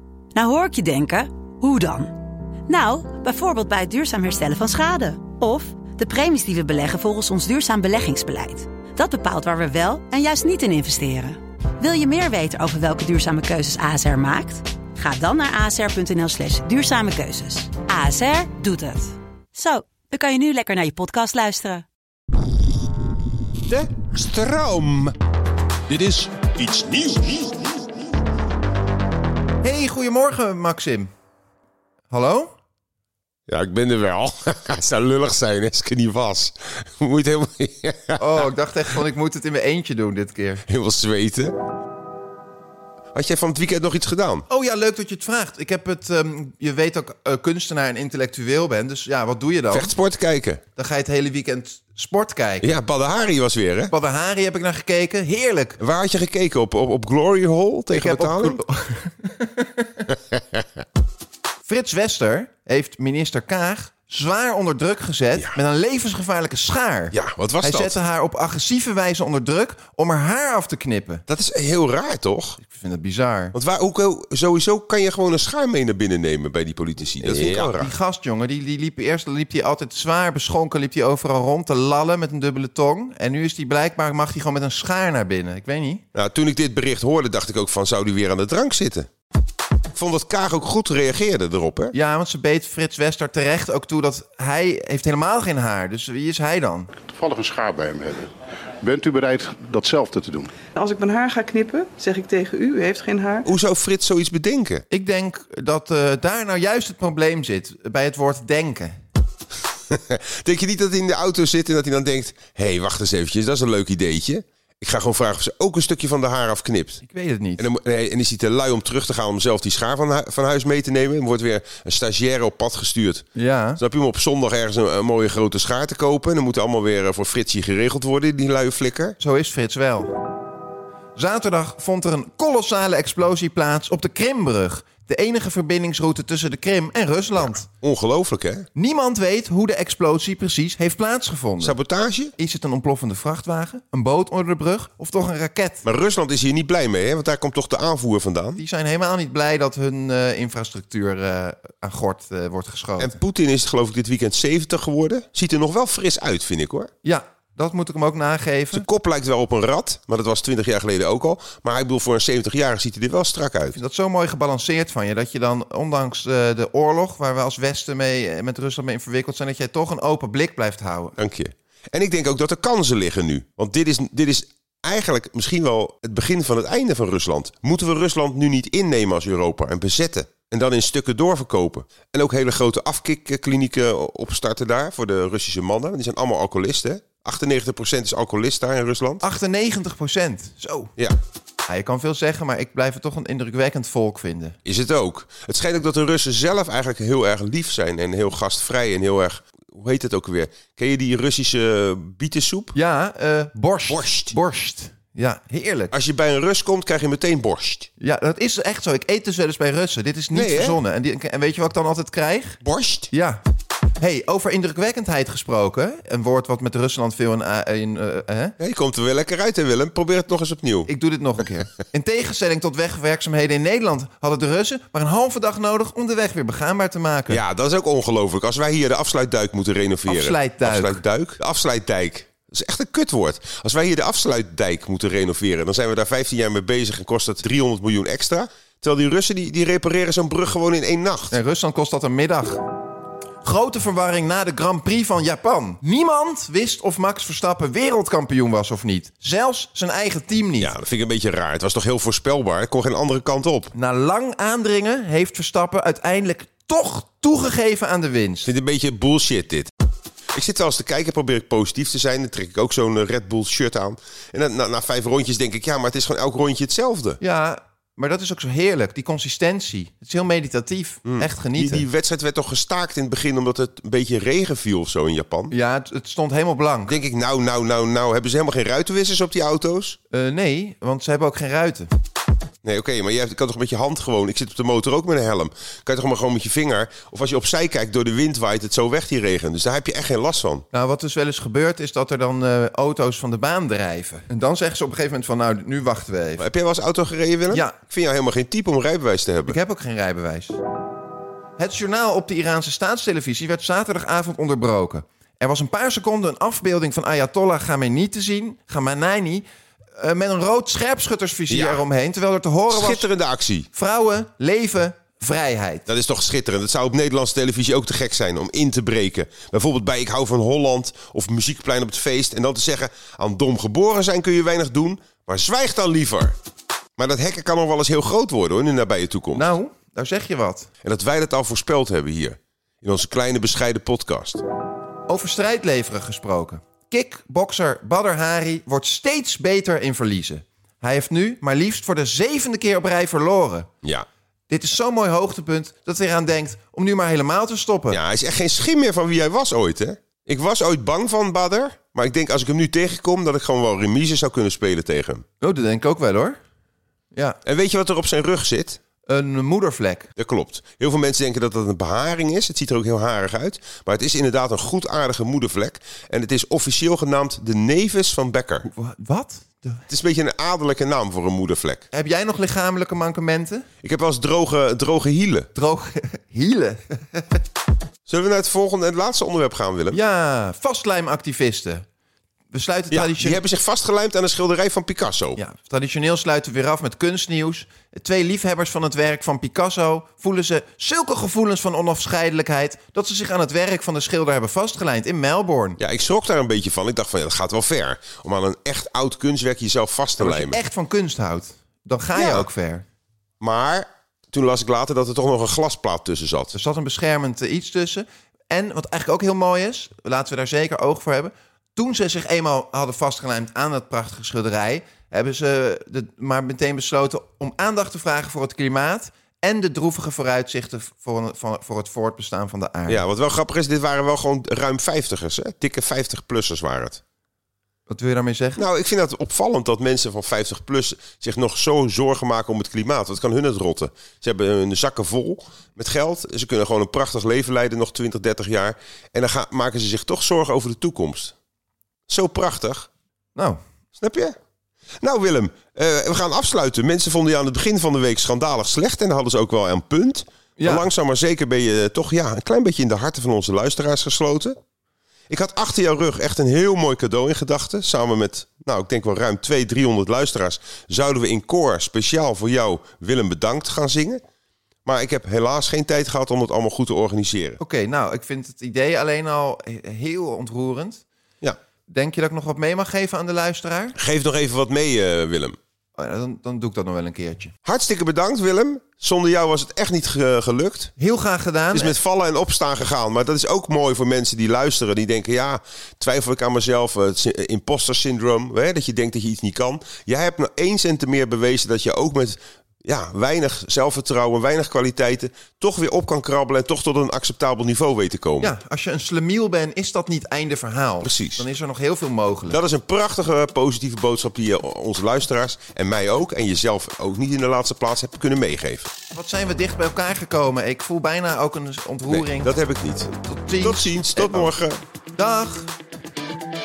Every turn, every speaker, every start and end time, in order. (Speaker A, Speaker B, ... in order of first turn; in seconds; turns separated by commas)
Speaker A: 0.3-2.1, Speaker A: 2.7-21.8, Speaker B: 23.7-25.1, Speaker B: 25.9-27.3, Speaker C: 29.6-31.1, Speaker C: 32.1-32.5, Speaker B: 33.5-38.5, Speaker C: 38.2-40.6, Speaker B: 40.7-41.5, Speaker B: 43.1-44.4, Speaker C: 44.5-49.9, Speaker B: 49.7-50.6, Speaker C: 50.7-52.7, Speaker B: 52.6-53.9, Speaker C: 53.9-55.8, Speaker B: 55.8-58.6, Speaker C: 57.9-60.0, Speaker C: 61.6-71.2, Speaker B: 67.1-68.0, Speaker B: 71.3-72.6, Speaker C: 72.6-73.5, Speaker B: 73.5-77.9, Speaker C: 77.2-86.0, Speaker B: 86.1-89.1, Speaker B: 89.9-91.9, Speaker C: 91.9-96.9, Speaker D: 97.1-100.5, Speaker E: 100.7-103.4, Speaker B: 103.5-104.8, Speaker C: 104.9-108.9, Speaker B: 109.9-117.0, Speaker C: 117.0-117.7, Speaker B: 117.6-123.2, Speaker C: 123.3-123.8, Speaker B: 123.8-129.2, Speaker C: 129.2-130.1, Speaker C: 131.2-137.7, Speaker B: 137.4-138.7, Speaker C: 138.7-141.8, Speaker B: 141.6-142.3, Speaker C: 142.4-145.8, Speaker B: 145.8-148.6, Speaker C: 148.6-153.1, Speaker B: 153.0-156.9, Speaker C: 157.0-158.8, Speaker B: 158.7-163.8, Speaker C: 163.7-171.2, Speaker B: 171.2-189.2, Speaker C: 189.2-190.9, Speaker C: 191.7-194.6, Speaker B: 194.6-202.8, Speaker C: 202.7-205.9, Speaker B: 203.9-204.3, Speaker B: 205.9-207.9, Speaker C: 208.0-212.6, Speaker B: 210.3-210.8, Speaker B: 212.6-213.1, Speaker C: 213.1-213.4, Speaker C: 214.0-218.6, Speaker B: 218.6-220.9, Speaker C: 220.8-227.4, Speaker B: 227.3-241.4, Speaker C: 230.1-231.0, Speaker C: 241.3-242.6, Speaker C: 243.4-250.7, Speaker B: 250.6-253.7, Speaker C: 253.7-258.5, Speaker B: 258.4-259.7, Speaker B: 260.3-267.2, Speaker C: 267.2-271.9, Speaker B: 271.1-275.5, Speaker C: 275.5-277.0, Speaker B: 276.9-280.0, Speaker C: 280.1-281.9, Speaker B: 282.6-290.6, Speaker C: 290.7-296.4, Speaker B: 296.4-299.6, Speaker C: 297.5-297.8, Speaker C: 299.4-300.6, Speaker C: 301.6-309.4, Speaker C: 309.9-313.1, Speaker B: 311.5-311.8, Speaker B: 312.7-313.7, Speaker C: 313.7-315.9, Speaker B: 315.9-326.3, Speaker B: 327.0-329.5, Speaker C: 329.3-330.7, Speaker B: 330.8-334.4, Speaker C: 335.1-343.7, Speaker C: 344.5-348.0, Speaker B: 347.9-355.2, Speaker C: 355.4-356.4, Speaker B: 357.4-358.8, Speaker C: 359.1-360.1, Speaker B: 360.2-368.7, Speaker C: 368.6-369.8, Speaker B: 369.9-371.8, Speaker C: 371.9-373.6, Speaker B: 373.8-375.5, Speaker C: 375.5-377.4, Speaker B: 378.1-380.0, Speaker C: 379.9-381.8, Speaker C: 382.5-383.4, Speaker B: 382.9-385.4, Speaker C: 385.4-395.8, Speaker B: 395.8-400.6, Speaker C: 400.2-402.8, Speaker B: 402.1-402.5, Speaker B: 403.4-406.5, Speaker C: 406.5-423.0, Speaker B: 422.9-427.0, Speaker C: 427.9-428.7, Speaker B: 428.6-441.3, Speaker B: 442.1-442.9, Speaker B: 444.0-444.3, Speaker B: 445.0-454.5, Speaker C: 450.6-450.9, Speaker B: 455.3-464.2, Speaker B: 464.9-467.6, Speaker C: 467.6-471.0, Speaker C: 471.9-473.9, Speaker B: 473.9-475.6, Speaker C: 475.9-477.5, Speaker B: 477.6-480.9, Speaker C: 481.0-481.9, Speaker B: 481.7-498.5, Speaker C: 498.4-502.6, Speaker B: 501.0-501.4, Speaker B: 502.5-508.9, Speaker C: 509.1-512.5, Speaker B: 512.1-514.8, Speaker C: 513.2-514.5, Speaker C: 515.1-515.7